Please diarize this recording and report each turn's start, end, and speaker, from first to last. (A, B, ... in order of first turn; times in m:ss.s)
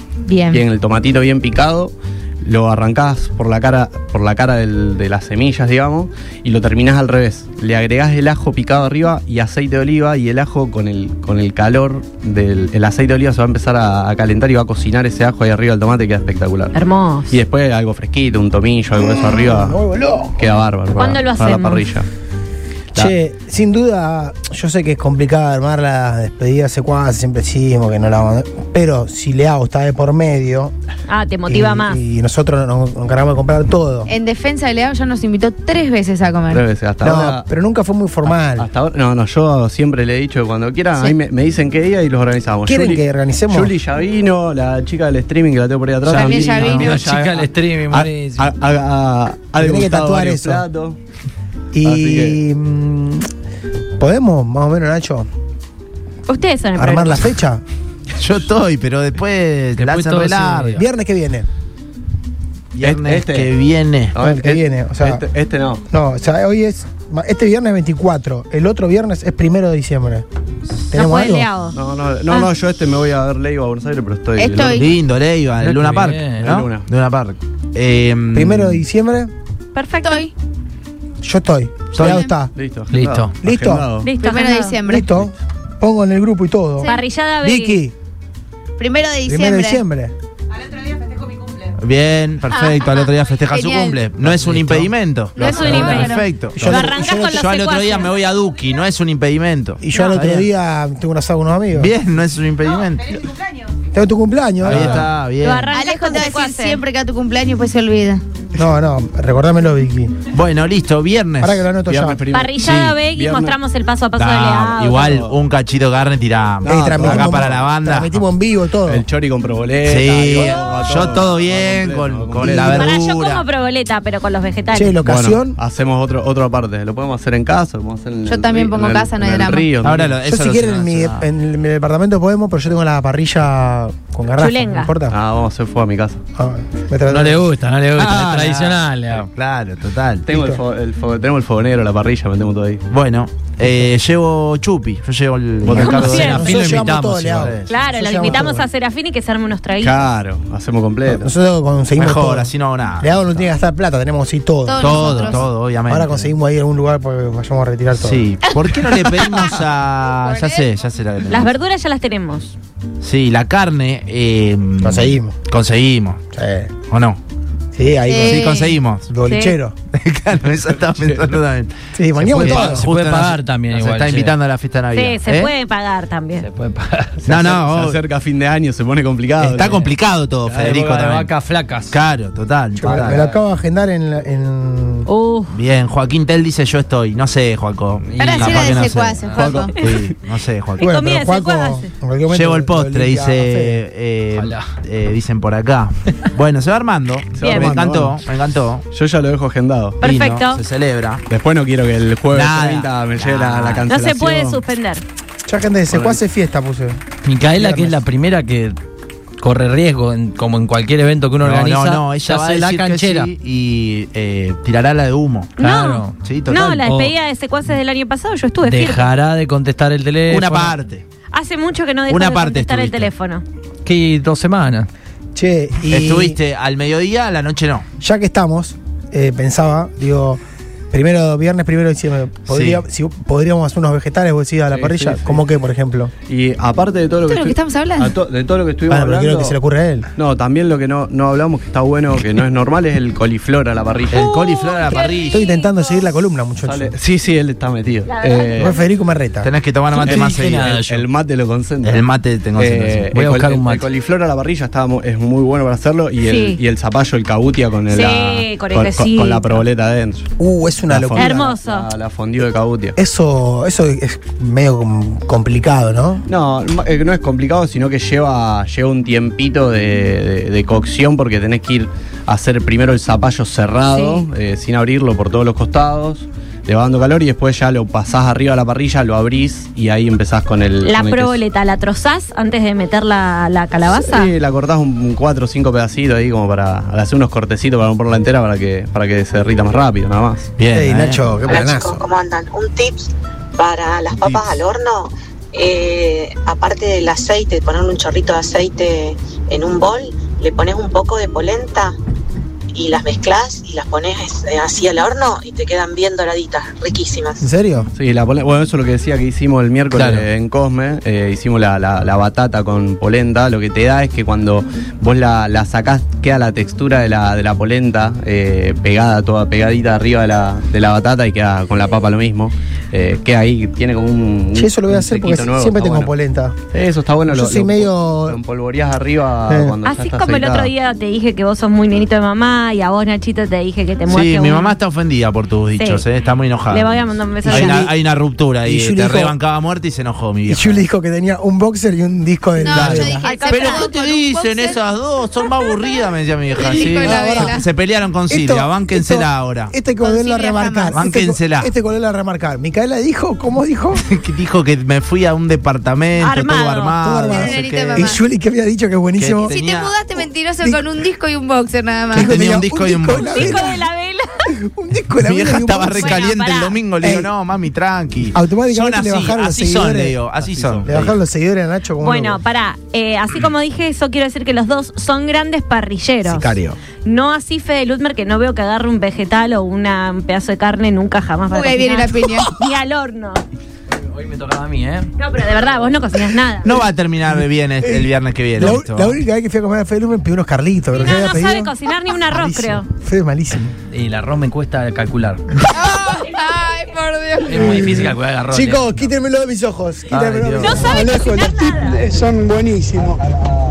0:00.3-0:00.6 A
0:00.5-0:16.8 B
0:16.7-0:17.4 C
0:17.3-0:19.8 B
0:19.0-0:20.5 D
0:20.4-0:22.1 B
0:21.0-0:21.9 C
0:23.0-0:30.7 D
0:31.1-0:32.0 C
0:31.5-0:34.1 D
0:34.1-0:36.6 A
0:36.5-0:37.5 B
0:37.0-0:38.7 D
0:38.2-0:51.0 B
0:42.6-0:43.7 D
0:46.1-0:48.5 E
0:46.1-0:47.0 A
0:49.6-0:50.6 D
0:51.7-0:53.3 D
0:51.8-0:52.4 B
0:54.0-0:55.3 D
0:56.3-0:57.2 C
0:56.8-0:57.6 D
0:58.2-1:00.8 F
0:59.8-1:00.8 E
1:00.8-1:01.5 D
1:02.8-1:04.1 F
1:02.8-1:03.5 B
1:04.1-1:05.8 B
1:04.2-1:05.2 D
1:05.9-1:10.2 D
1:10.9-1:11.5 D
1:10.9-1:11.8 C
1:11.7-1:14.9 B
1:14.4-1:14.9 A
1:14.7-1:18.8 F
1:15.6-1:16.5 E
1:16.4-1:16.9 B
1:18.3-1:19.3 D
1:19.8-1:20.3 C
1:20.0-1:20.3 A
1:21.2-1:22.5 D
1:21.9-1:22.2 F
1:22.0-1:22.3 A
1:22.6-1:24.1 B
1:22.9-1:23.3 E
1:23.4-1:23.9 D
1:24.0-1:24.8 C
1:24.2-1:25.2 A
1:24.8-1:26.9 D
1:26.8-1:27.8 C
1:27.4-1:27.9 D
1:28.8-1:29.8 A
1:29.2-1:30.1 D
1:31.8-1:40.5 F
1:32.6-1:32.9 A
1:33.5-1:34.0 A
1:34.4-1:34.9 E
1:35.4-1:36.2 A
1:35.4-1:38.2 C
1:36.5-1:37.4 D
1:39.8-1:41.9 D
1:41.7-1:43.2 F
1:43.9-1:45.1 D
1:44.6-1:45.7 F
1:45.4-1:46.8 C
1:45.7-1:48.2 A
1:48.6-1:50.1 D
1:50.3-1:51.7 F
1:51.4-1:52.2 D
1:51.9-1:53.6 B
1:52.3-1:55.2 C
1:54.2-1:58.2 F
1:55.0-1:55.4 B
1:56.6-1:57.6 B
1:56.6-1:59.1 D
1:58.9-2:02.9 B
1:59.8-2:03.4 F
2:02.5-2:02.8 D
2:02.6-2:05.0 C
2:04.7-2:05.6 D
2:05.0-2:10.1 B
2:08.2-2:09.7 A
2:09.8-2:11.2 F
2:10.2-2:15.2 D
2:14.4-2:14.9 C
2:15.1-2:16.2 B
2:16.4-2:17.5 D
2:17.1-2:19.3 E
2:18.0-2:20.2 F
2:20.3-2:22.8 B
2:20.3-2:20.6 D
2:22.9-2:27.7 F
2:25.6-2:26.5 B
2:25.7-2:26.6 C
2:25.9-2:27.5 E
2:26.3-2:28.7 D
2:27.6-2:30.1 C
2:29.8-2:31.3 B
2:31.1-2:38.3 D
2:32.0-2:33.5 F
2:34.6-2:35.5 A
2:34.8-2:36.3 F
2:38.0-2:41.5 F
2:40.2-2:40.6 A
2:41.3-2:42.5 C
2:43.0-2:46.2 F
2:44.8-2:45.4 D
2:46.3-2:46.7 D
2:46.9-2:47.2 F
2:47.7-2:49.7 D
2:48.1-2:48.8 A
2:48.2-2:49.1 F
2:49.2-2:49.6 C
2:49.9-2:55.5 F
2:50.8-2:51.4 B
2:52.0-2:52.8 D
2:52.2-2:54.4 E
2:54.9-2:56.5 C
2:56.4-2:57.2 E
2:57.2-2:59.9 B
2:57.2-2:58.0 F
2:59.4-3:01.3 F
2:59.5-2:59.9 E
3:00.5-3:02.0 E
3:01.9-3:03.2 F
3:02.8-3:05.1 D
3:05.1-3:05.6 C
3:05.5-3:10.9 F
3:08.1-3:09.4 E
3:08.2-3:09.7 A
3:09.4-3:09.9 B
3:10.8-3:11.9 C
3:10.8-3:13.8 D
3:12.3-3:18.8 F
3:14.4-3:14.7 E
3:17.4-3:18.2 B
3:17.4-3:17.8 C
3:18.9-3:20.0 B
3:20.0-3:20.6 C
3:20.0-3:21.2 F
3:21.3-3:24.6 B
3:22.3-3:23.9 F
3:23.9-3:25.0 C
3:25.5-3:27.0 D
3:25.9-3:26.2 B
3:27.2-3:28.8 E
3:27.5-3:28.0 D
3:29.4-3:33.3 E
3:31.4-3:35.5 F
3:35.6-3:39.1 C
3:35.6-3:37.1 E
3:36.2-3:36.8 F
3:38.6-3:40.8 E
3:40.3-3:41.0 F
3:41.3-3:43.4 C
3:42.1-3:43.1 F
3:43.8-3:44.9 E
3:45.4-3:46.4 D
3:45.9-3:47.9 F
3:48.0-3:56.1 D
3:52.5-3:52.8 F
3:54.7-3:55.4 B
3:56.3-3:59.6 B
3:57.3-3:58.2 A
3:58.9-4:00.1 D
4:00.2-4:04.3 B
4:04.1-4:05.4 F
4:04.3-4:05.7 C
4:05.3-4:07.0 D
4:06.6-4:08.8 B
4:08.1-4:08.8 C
4:08.6-4:09.5 D
4:09.4-4:10.7 F
4:09.9-4:11.1 E
4:10.0-4:12.0 B
4:11.8-4:13.1 F
4:12.6-4:20.3 B
4:13.1-4:13.9 E
4:16.2-4:16.6 C
4:17.9-4:19.6 C
4:20.4-4:21.5 D
4:20.9-4:23.0 B
4:21.1-4:21.9 C
4:23.0-4:26.2 D
4:26.3-4:41.4 B
4:33.9-4:34.2 C
4:40.8-4:44.3 C
4:43.9-4:50.5 B
4:50.6-4:51.4 F
4:50.7-4:52.0 D
4:51.5-5:01.9 G
4:54.2-4:54.4 F
5:02.7-5:07.4 G
5:07.4-5:07.9 D
5:07.9-5:26.1 B
5:09.9-5:10.3 F
5:24.6-5:26.6 D
5:26.7-5:30.7 B
5:27.3-5:28.4 D
5:29.5-5:29.8 D
5:29.8-5:34.8 C
5:34.1-5:40.8 F
5:35.8-5:36.0 C
5:36.7-5:37.9 C
5:37.4-5:37.9 D
5:38.6-5:39.4 D
5:40.5-5:43.2 D
5:42.6-5:44.8 A
5:42.7-5:49.7 F
5:43.2-5:43.9 C
5:46.6-5:47.6 A
5:47.0-5:47.6 D
5:48.3-5:54.0 D
5:50.0-5:51.0 A
5:50.9-5:51.7 F
5:54.0-5:58.2 F
5:56.2-5:57.0 C
5:57.0-5:59.6 D
5:57.3-5:58.2 A
5:59.2-5:59.9 F
5:59.4-6:02.3 A
6:02.1-6:03.8 D
6:02.1-6:03.7 F
6:03.2-6:04.5 C
6:04.5-6:06.2 D
6:05.2-6:11.1 F
6:06.0-6:06.8 C
6:07.0-6:07.3 D
6:08.3-6:10.2 D
6:10.4-6:11.0 B
6:10.9-6:12.4 D
6:12.0-6:16.5 C
6:16.2-6:16.8 D
6:17.0-6:23.4 C
6:21.5-6:22.6 A
6:23.9-6:25.1 E
6:25.2-6:26.8 C
6:26.6-6:29.2 F
6:27.8-6:31.8 D
6:31.0-6:32.9 C
6:32.3-6:33.7 D
6:33.9-6:35.6 E
6:35.6-6:37.8 A
6:37.4-6:38.9 E
6:37.6-6:40.8 D
6:40.1-6:40.8 F
6:40.6-6:42.1 C
6:40.7-6:43.2 H